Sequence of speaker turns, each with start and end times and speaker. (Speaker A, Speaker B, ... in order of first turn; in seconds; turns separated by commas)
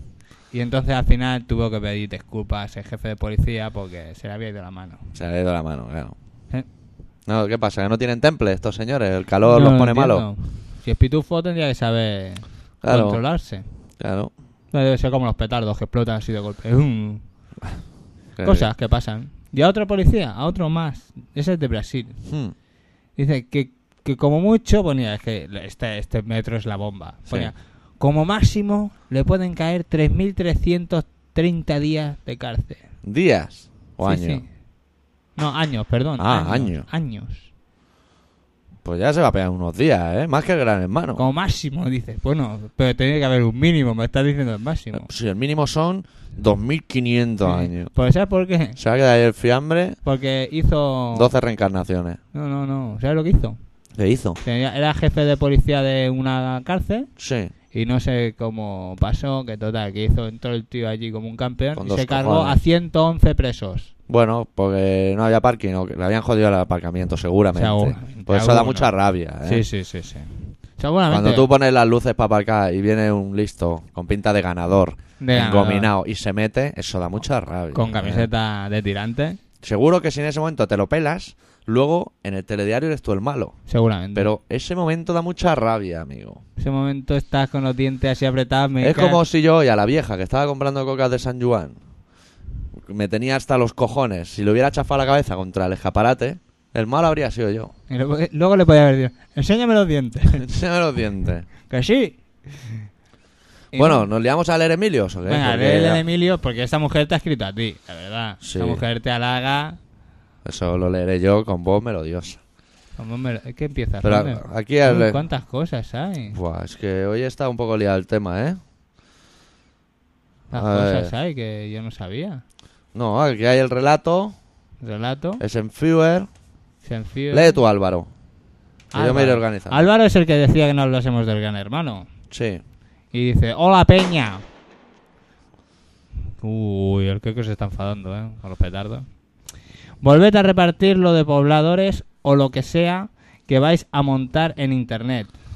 Speaker A: 0.5-5.0, Speaker B: 5.2-6.2, Speaker B: 7.3-10.3, Speaker A: 9.4-13.6, Speaker B: 12.8-13.2, Speaker B: 14.0-14.3, Speaker A: 14.7-17.2, Speaker B: 18.4-18.7, Speaker A: 18.4-22.2, Speaker B: 22.3-22.5, Speaker A: 23.2-32.8, Speaker B: 33.0-34.4, Speaker A: 34.0-34.5, Speaker A: 35.4-37.5, Speaker B: 36.2-36.9, Speaker B: 38.8-41.2, Speaker A: 41.2-45.1, Speaker B: 44.9-47.9, Speaker A: 47.5-48.8, Speaker B: 48.8-50.0, Speaker A: 50.0-51.3, Speaker B: 51.1-52.2, Speaker A: 52.3-53.6, Speaker B: 54.0-54.4, Speaker A: 54.4-57.1, Speaker B: 57.2-57.5, Speaker A: 57.7-63.9, Speaker B: 61.8-62.6, Speaker B: 64.1-69.7, Speaker A: 67.5-68.9, Speaker A: 69.5-71.5, Speaker B: 71.1-78.3, Speaker A: 75.2-75.9, Speaker A: 77.7-79.4, Speaker B: 79.6-83.6, Speaker A: 83.7-84.3, Speaker B: 84.2-86.4, Speaker A: 86.6-89.2, Speaker B: 88.8-91.8, Speaker B: 92.8-97.7, Speaker A: 97.9-100.5, Speaker B: 100.4-101.5, Speaker A: 101.7-102.8, Speaker A: 103.7-104.1, Speaker B: 103.7-106.0, Speaker A: 105.3-109.8, Speaker B: 108.4-108.8, Speaker B: 110.5-112.4, Speaker A: 113.0-116.4, Speaker B: 114.0-115.2, Speaker B: 116.3-118.6, Speaker A: 120.5-122.4, Speaker B: 120.5-121.1, Speaker B: 122.9-124.4, Speaker A: 124.8-125.4, Speaker B: 125.4-126.3, Speaker A: 126.8-127.6, Speaker B: 127.3-128.1, Speaker A: 128.9-132.1, Speaker B: 128.9-129.9, Speaker B: 132.3-132.6, Speaker A: 133.1-134.4, Speaker A: 136.4-139.1, Speaker A: 140.0-145.3